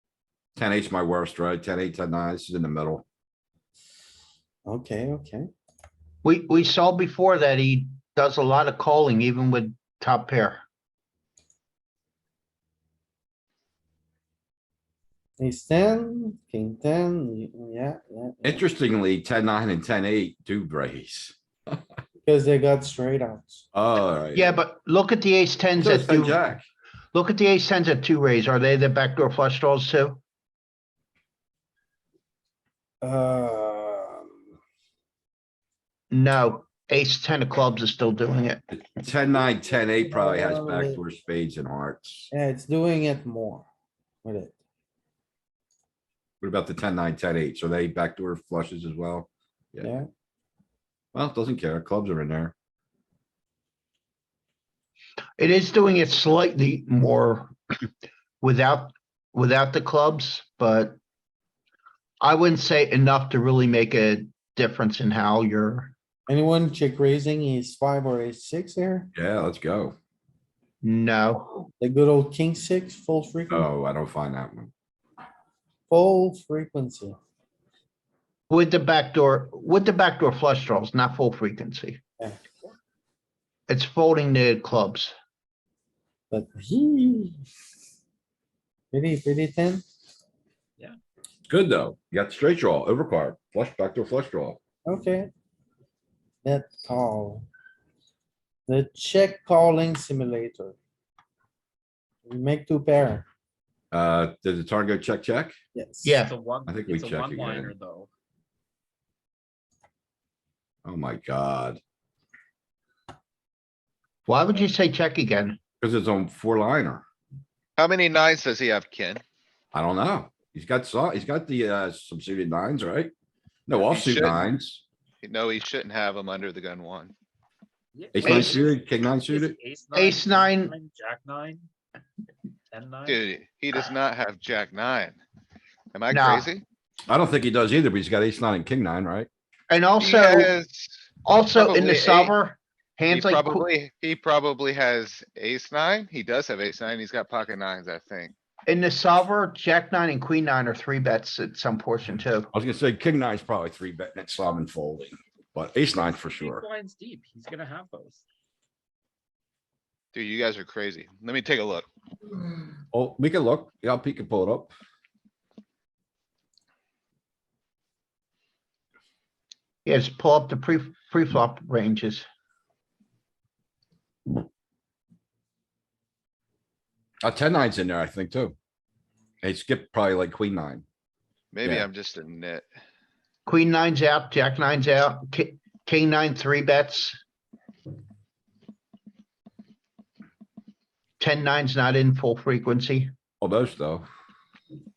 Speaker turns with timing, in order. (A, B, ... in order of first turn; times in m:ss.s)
0:00.6-0:03.0 A
0:04.7-0:05.5 B
0:06.2-0:10.6 C
0:15.4-0:18.6 B
0:18.4-0:21.4 A
0:22.2-0:23.7 B
0:23.7-0:24.6 A
0:24.4-0:26.4 C
0:25.8-0:26.7 A
0:27.1-0:30.2 C
0:33.0-0:34.3 B
0:36.1-0:38.6 C
0:38.7-0:42.3 A
0:40.1-0:41.0 B
0:42.3-0:43.7 B
0:44.2-0:44.6 B
0:46.4-0:49.9 A
0:49.8-0:50.1 B
0:51.1-0:52.5 A
0:55.4-0:57.5 C
0:58.4-1:01.0 C
1:02.2-1:06.0 C
1:06.3-1:09.1 B
1:09.2-1:10.0 A
1:10.8-1:11.7 C
1:11.8-1:13.7 B
1:13.5-1:14.7 A
1:15.9-1:17.2 B
1:18.5-1:22.0 C
1:23.7-1:25.1 C
1:26.3-1:27.4 B
1:28.9-1:29.8 B
1:31.5-1:34.6 A
1:34.9-1:35.3 B
1:36.4-1:37.5 B
1:38.7-1:40.8 B
1:42.3-1:43.3 B
1:43.9-1:45.6 A
1:45.8-1:46.2 B
1:46.0-1:46.4 C
1:46.2-1:48.1 D
1:46.7-1:47.7 A
1:50.8-1:51.8 A
1:54.3-1:55.6 C
1:55.8-1:57.0 A
1:57.8-1:59.2 E
1:59.7-2:03.1 A
2:03.7-2:04.8 A
2:03.7-2:04.5 E
2:05.2-2:07.1 E
2:07.9-2:11.7 D
2:08.1-2:09.6 A
2:08.2-2:08.6 C
2:10.0-2:10.8 C
2:12.7-2:13.2 D
2:13.1-2:15.2 E
2:15.9-2:16.6 E
2:16.1-2:16.5 C
2:17.1-2:19.3 A
2:19.7-2:20.5 C
2:20.0-2:22.4 E
2:21.2-2:23.6 C
2:23.1-2:28.3 E
2:28.7-2:32.5 C
2:32.5-2:36.6 A
2:36.4-2:38.2 D
2:40.1-2:41.9 E
2:42.9-2:44.7 A
2:49.8-2:52.3 C
2:57.2-2:58.6 A
2:59.4-3:00.8 A
3:01.5-3:02.7 E
3:03.5-3:07.2 C
3:11.2-3:13.1 C
3:13.4-3:14.1 A